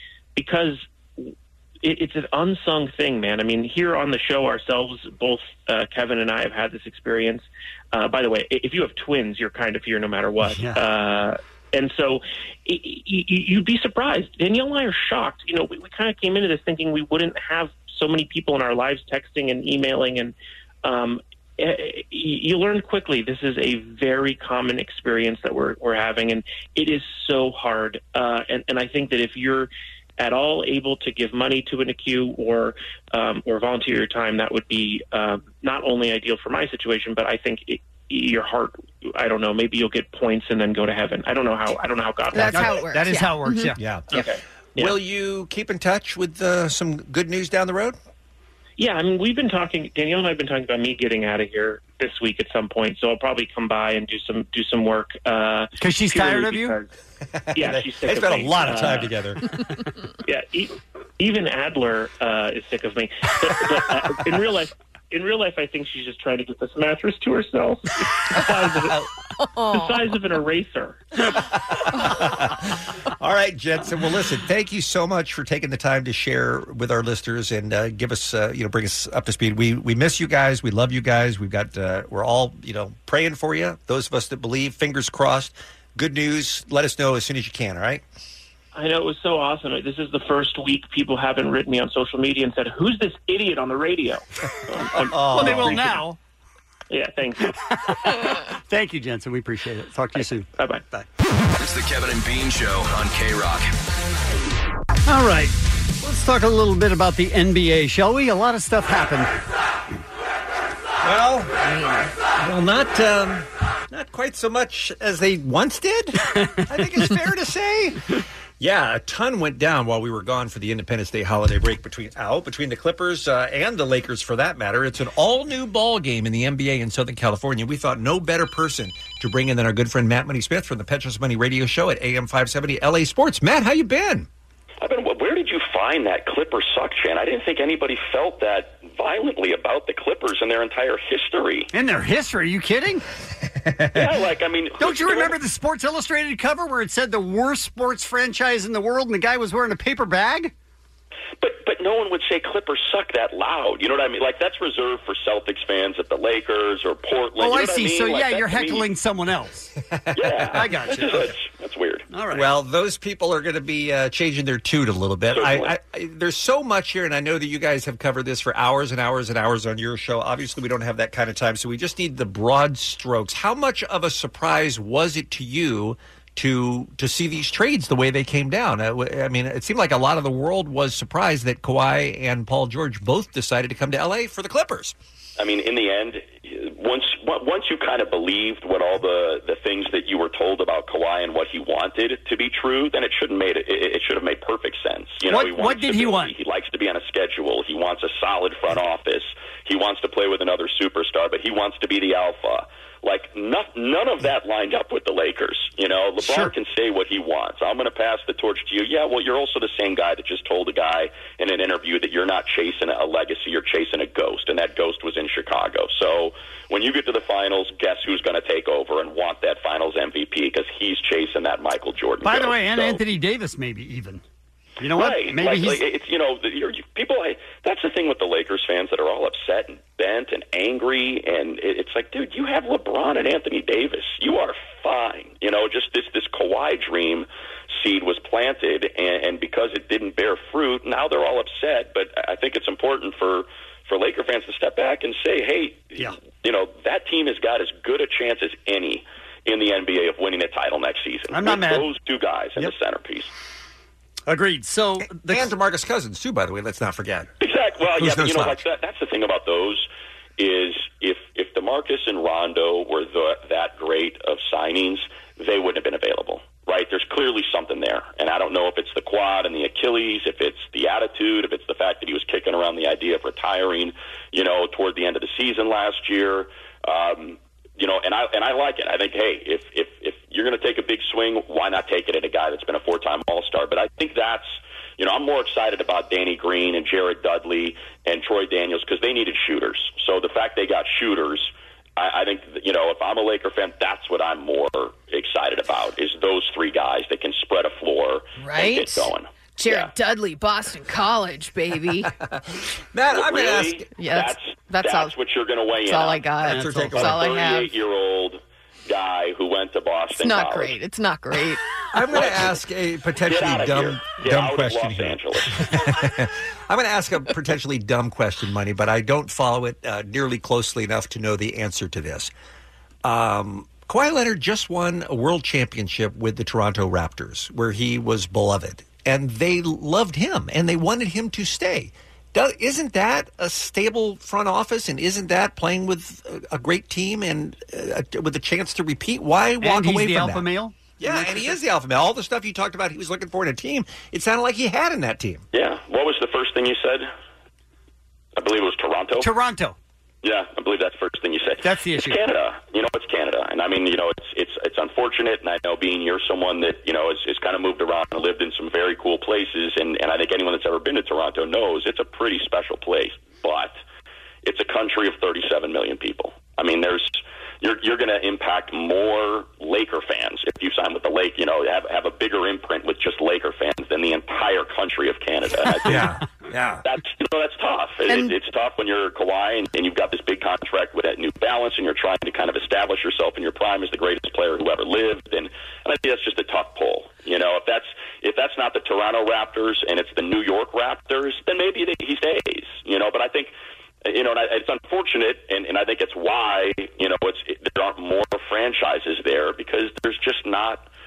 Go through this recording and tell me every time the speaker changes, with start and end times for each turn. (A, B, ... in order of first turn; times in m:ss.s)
0:00.4-0:42.9 A
0:10.5-0:10.8 B
0:42.3-0:44.3 C
0:42.5-0:43.8 B
0:43.8-0:44.1 D
0:44.1-0:45.0 A
0:44.8-0:48.0 D
0:48.8-0:56.9 A
0:55.8-0:56.8 B
0:57.4-0:59.4 D
0:57.5-0:59.2 A
1:00.3-1:09.1 A
1:09.4-1:09.9 C
1:09.7-1:11.1 A
1:11.9-1:28.0 D
1:28.7-1:36.0 A
1:35.0-1:36.0 D
1:35.2-1:36.2 B
1:36.9-1:37.5 A
1:37.4-1:41.1 B
1:40.2-1:40.8 A
1:41.6-1:43.7 E
1:45.1-1:49.3 B
1:51.0-1:51.5 D
1:52.4-1:58.0 D
1:56.4-1:56.6 B
1:58.6-2:14.3 D
2:14.8-2:21.7 F
2:21.7-2:23.0 B
2:23.9-2:25.4 F
2:24.8-2:30.5 B
2:31.4-2:38.9 F
2:37.4-2:39.7 B
2:40.1-2:40.7 D
2:40.2-2:42.1 F
2:40.5-2:41.3 B
2:42.1-2:42.5 B
2:42.3-3:05.0 D
2:45.3-2:45.7 F
3:05.4-3:43.0 F
3:15.3-3:16.4 B
3:26.2-3:26.5 B
3:42.2-3:44.2 B
3:44.8-3:45.8 B
3:44.9-4:13.3 F
4:11.3-4:11.9 B
4:14.3-4:15.5 B
4:15.2-4:17.3 D
4:17.4-4:19.9 F
4:18.0-4:18.6 D
4:20.4-4:59.9 F
4:58.4-5:02.1 C
5:02.9-5:03.9 D
5:03.1-5:06.4 F
5:04.0-5:05.2 C
5:05.8-5:07.7 C
5:06.4-5:07.2 B
5:06.5-5:07.3 D
5:07.0-5:10.8 F
5:10.2-5:11.6 C
5:11.9-5:22.3 D
5:12.1-5:12.6 F
5:13.2-5:15.7 F
5:23.0-5:40.5 D
5:39.6-5:41.5 B
5:41.0-5:45.4 D
5:45.5-5:47.1 F
5:48.4-5:49.3 F
5:49.2-5:49.8 B
5:50.2-6:03.8 F
5:51.6-5:52.2 B
6:04.4-6:16.1 F
6:15.8-6:16.8 D
6:16.8-6:33.5 F
6:18.1-6:18.3 C
6:34.0-6:40.9 F